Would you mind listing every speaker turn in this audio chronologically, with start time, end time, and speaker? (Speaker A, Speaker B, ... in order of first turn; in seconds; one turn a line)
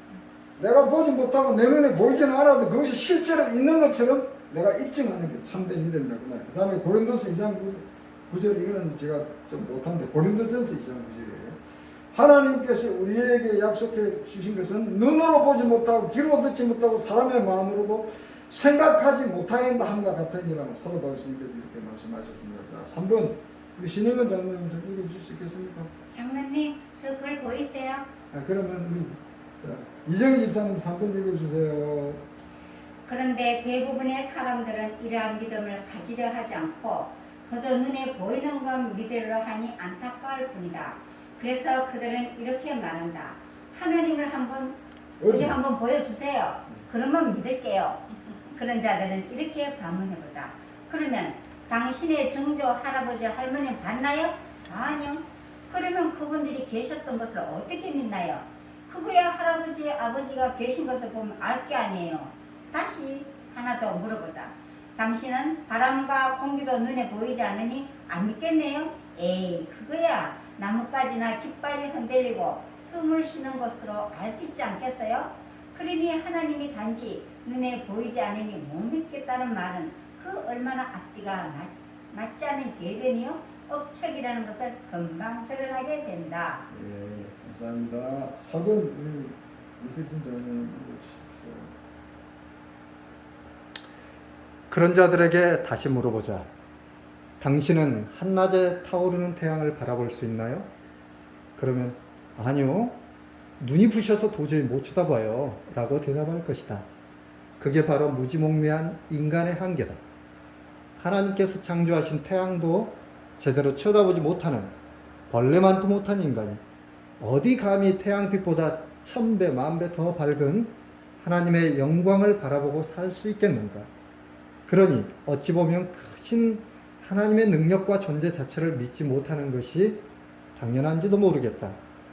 Speaker A: 0.6-11.6
Speaker A: 12.1-25.9
Speaker B: 26.1-28.1
Speaker A: 28.3-32.2
Speaker B: 33.1-86.6
Speaker A: 45.2-45.6
Speaker A: 86.7-91.7
Speaker C: 94.7-96.5
Speaker C: 97.4-100.7
Speaker C: 101.6-103.0
Speaker C: 103.6-106.9
Speaker C: 107.6-110.0
Speaker C: 111.0-114.8
Speaker C: 115.3-116.6
Speaker C: 117.2-123.9
Speaker C: 124.7-130.0
Speaker C: 130.6-131.8